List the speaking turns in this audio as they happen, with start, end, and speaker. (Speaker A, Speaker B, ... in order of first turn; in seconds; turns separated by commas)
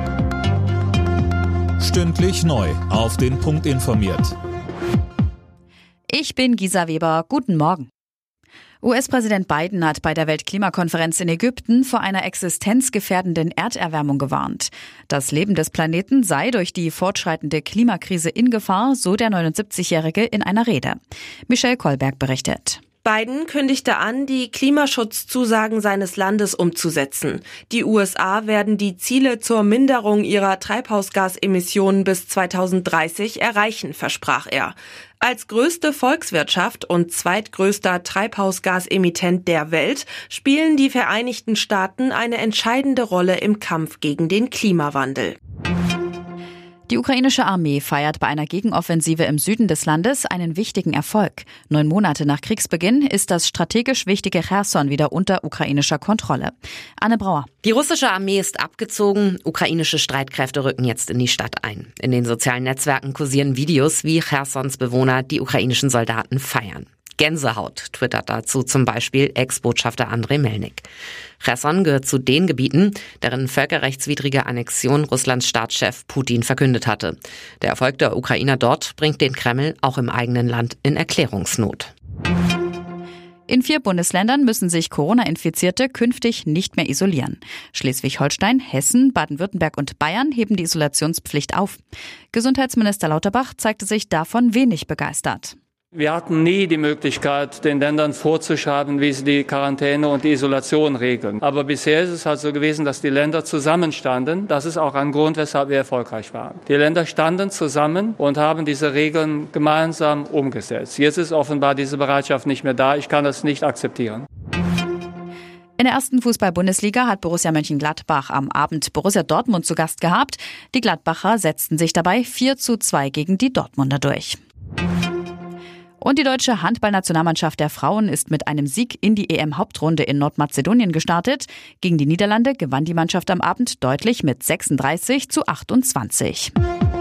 Speaker A: 1.8-4.3, Speaker B: 6.1-7.9, Speaker B: 8.8-22.8, Speaker C: 23.0-45.4, Speaker B: 46.9-57.5, Speaker D: 57.6-70.9, Speaker D: 71.4-81.9, Speaker B: 83.5-91.8, Speaker B: 92.3-95.6, Speaker E: 95.9-114.2, Speaker B: 115.8-124.4, Speaker B: 126.0-136.5